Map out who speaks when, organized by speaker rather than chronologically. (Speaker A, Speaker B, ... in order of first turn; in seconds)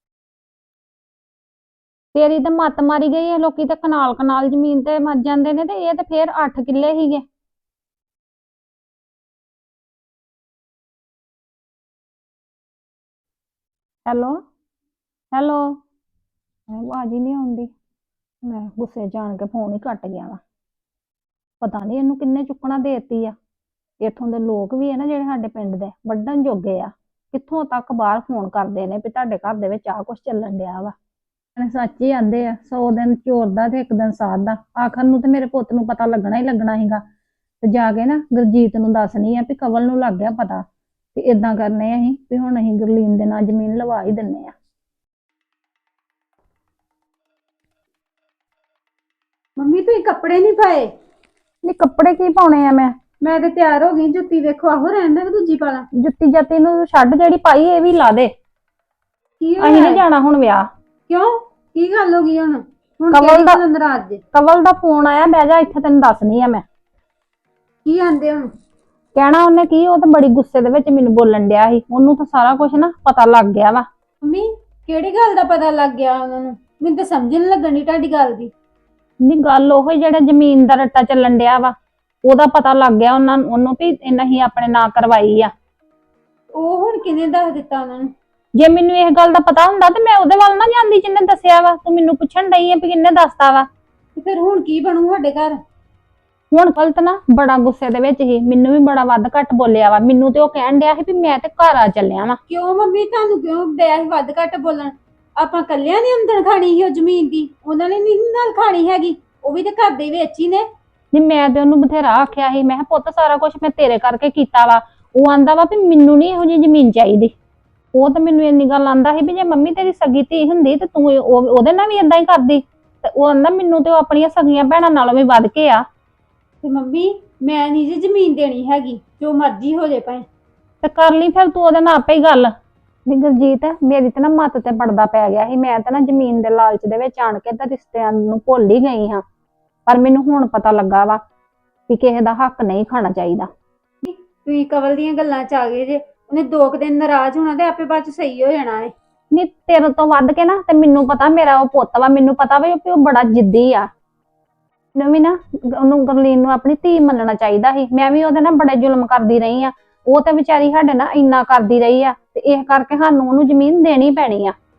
Speaker A: 2.1-7.2, 14.1-14.4, 15.3-15.8, 16.7-17.7, 18.4-20.4, 21.6-23.4, 24.0-30.9, 31.6-37.0, 37.6-44.5, 51.7-53.0, 56.0-58.3, 59.6-60.7, 63.1-63.6, 64.3-66.6, 69.2-73.9, 79.2-81.7, 82.3-85.5, 88.6-93.7, 96.5-102.4, 111.1-117.3, 117.9-125.8, 130.8-132.5, 133.1-139.2, 139.9-141.2, 141.9-143.5, 149.3-153.9, 154.9-164.6
Speaker B: 49.6-50.9, 53.2-55.9, 59.4-60.0, 61.1-64.2, 67.8-68.5, 74.2-78.5, 86.5-88.1, 94.2-95.6, 102.5-110.7, 126.6-130.2, 144.0-148.9